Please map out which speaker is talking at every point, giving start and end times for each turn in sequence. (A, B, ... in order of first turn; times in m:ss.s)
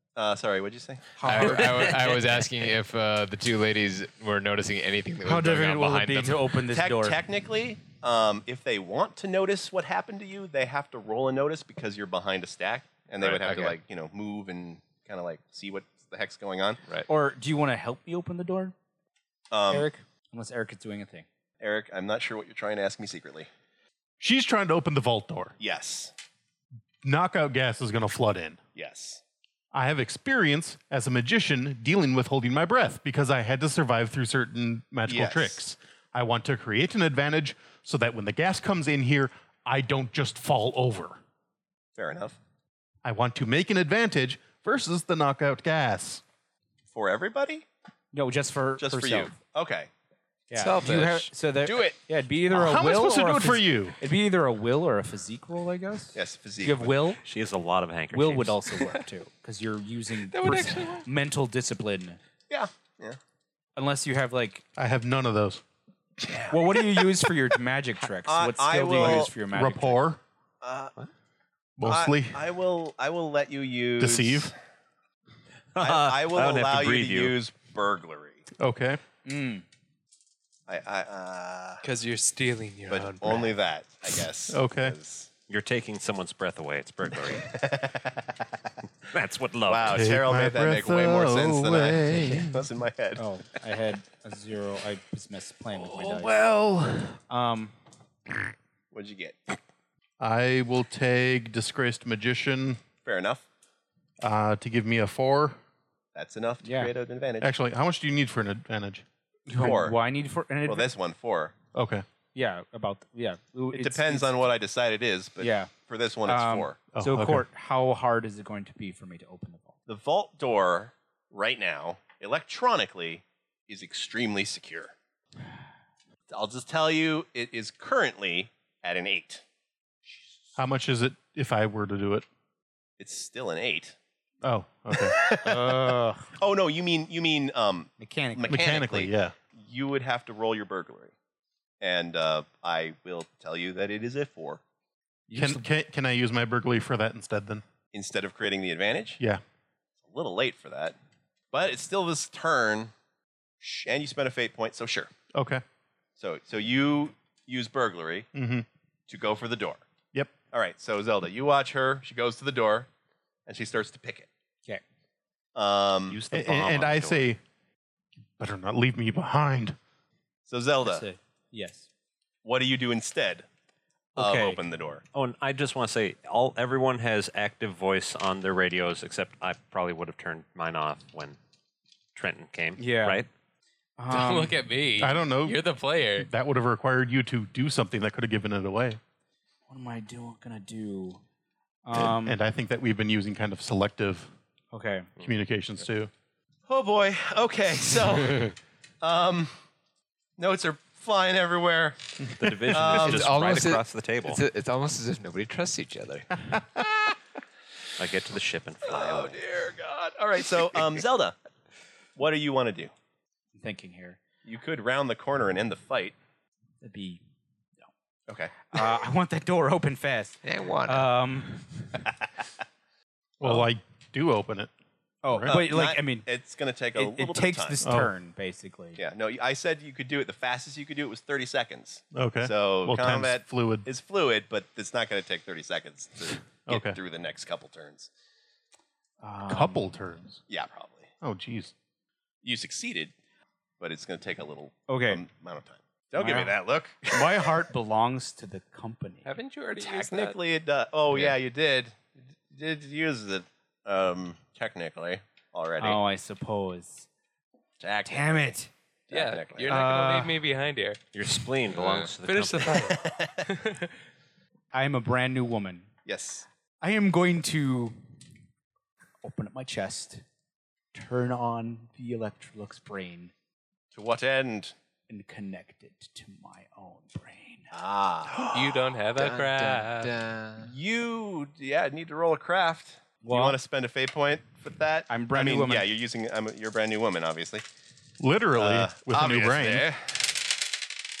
0:00.2-0:01.1 A
0:01.2-0:02.0 B
0:01.2-0:06.5 C
0:01.4-0:02.2 D
0:05.2-0:07.2 B
0:06.7-0:16.8 A
0:13.2-0:13.8 C
0:17.1-0:18.7 B
0:19.5-0:19.9 A
0:19.7-0:21.2 B
0:21.6-0:23.5 A
0:24.2-0:25.5 E
0:25.6-0:26.1 A
0:27.0-0:28.6 E
0:28.7-0:29.2 A
0:29.7-0:41.2 E
0:35.0-0:35.6 A
0:42.0-0:42.4 A
0:43.0-0:46.2 E
0:46.9-0:47.6 A
0:48.1-0:49.3 B
0:48.8-0:49.9 A
0:50.5-0:57.2 B
0:50.6-0:51.3 C
0:50.7-0:51.0 D
0:51.6-0:52.0 A
0:52.5-0:54.0 E
0:56.1-0:57.0 A
0:57.2-0:58.6 F
0:58.1-1:02.2 B
1:00.3-1:01.0 D
1:02.5-1:03.2 A
1:03.8-1:04.6 B
1:04.8-1:05.6 E
1:06.2-1:07.1 A
1:06.5-1:10.0 B
1:08.2-1:09.3 A
1:08.9-1:10.2 E
1:10.6-1:10.9 A
1:11.8-1:12.4 E
1:11.8-1:14.5 A
1:14.0-1:14.5 E
1:15.7-1:17.4 F
1:15.8-1:18.4 A
1:18.6-1:19.0 E
1:19.2-1:19.6 B
1:20.7-1:21.8 A
1:21.8-1:23.6 D
1:22.9-1:25.3 A
1:24.5-1:25.0 E
1:25.5-1:27.5 F
1:27.1-1:28.3 A
1:29.1-1:30.1 F
1:29.7-1:33.2 A
1:29.9-1:32.5 E
1:33.2-1:36.4 B
1:35.9-1:37.2 E
1:37.3-1:37.7 B
1:38.9-1:39.6 A
1:40.2-1:42.8 E
1:43.0-1:43.4 A
1:44.2-1:45.6 E
1:46.1-1:47.5 A
1:46.6-1:46.9 B
1:47.4-1:49.0 E
1:49.5-1:50.9 B
1:49.5-1:50.0 A
1:50.6-1:51.6 A
1:51.7-1:52.0 E
1:52.3-1:54.4 B
1:53.7-1:56.8 A
1:55.4-1:55.7 B
1:56.2-1:59.7 B
1:56.9-1:57.4 E
1:59.9-2:04.9 A
2:06.3-2:09.4 A
2:10.6-2:12.2 E
2:13.0-2:14.0 A
2:14.4-2:15.2 E
2:14.9-2:21.1 A
2:15.4-2:16.3 B
2:18.0-2:18.5 B
2:18.5-2:19.3 E
2:21.8-2:24.6 A
2:25.3-2:25.7 B
2:25.3-2:27.6 E
2:27.9-2:29.2 A
2:30.0-2:31.0 A
2:31.5-2:32.9 A
2:33.6-2:35.1 A
2:35.3-2:35.6 E
2:36.2-2:38.3 A
2:38.3-2:38.6 E
2:39.1-2:39.8 A
2:40.5-2:42.9 A
2:43.5-2:44.3 A
2:45.5-2:46.2 A
2:46.1-2:47.3 F
2:46.3-2:47.4 E
2:48.4-2:49.8 E
2:50.5-2:51.0 A
2:50.8-2:51.9 B
2:52.4-2:53.4 A
2:54.1-2:54.6 B
2:54.2-2:55.0 A
2:55.1-3:01.4 F
3:02.1-3:03.3 F
3:02.8-3:03.2 B
3:04.0-3:04.6 B
3:04.1-3:06.3 D
3:05.0-3:05.6 E
3:06.2-3:09.0 E
3:09.7-3:11.2 B
3:11.8-3:12.4 B
3:11.9-3:14.3 E
3:14.7-3:15.1 B
3:15.2-3:16.1 E
3:16.7-3:19.5 A
3:20.4-3:23.6 A
3:22.4-3:24.4 F
3:22.8-3:26.7 C
3:28.0-3:29.4 F
3:28.8-3:31.4 A
3:32.2-3:32.9 A
3:33.5-3:34.2 B
3:34.4-3:36.1 A
3:36.8-3:37.2 B
3:38.3-3:38.8 A
3:38.6-3:42.0 B
3:40.4-3:41.1 C
3:43.4-3:44.7 E
3:45.2-3:46.3 B
3:45.5-3:47.8 A
3:46.9-3:49.0 B
3:47.8-3:48.1 E
3:49.0-3:58.1 A
3:52.1-3:53.8 E
3:56.7-3:57.0 E
3:59.2-3:59.9 B
3:59.5-4:00.4 E
4:00.5-4:01.1 A
4:01.2-4:01.7 E
4:02.4-4:03.1 A
4:03.8-4:07.6 A
4:04.9-4:05.2 B
4:06.2-4:06.5 B
4:07.0-4:09.3 B
4:09.2-4:10.4 D
4:09.8-4:16.0 A
4:15.8-4:17.1 B
4:17.8-4:18.5 A
4:18.0-4:18.7 B
4:19.1-4:19.8 A
4:19.1-4:21.0 D
4:19.7-4:20.4 B
4:21.1-4:22.9 F
4:22.2-4:23.9 D
4:22.7-4:23.5 A
4:24.7-4:25.9 B
4:26.0-4:26.4 A
4:26.8-4:28.0 B
4:29.2-4:30.2 B
4:30.9-4:33.3 B
4:33.9-4:34.7 A
4:35.1-4:37.7 B
4:37.7-4:38.5 A
4:38.5-4:40.1 D
4:39.1-4:40.7 C
4:40.6-4:47.6 A
4:43.2-4:43.6 B
4:45.1-4:45.9 B
4:48.2-4:49.9 E
4:48.5-4:50.4 A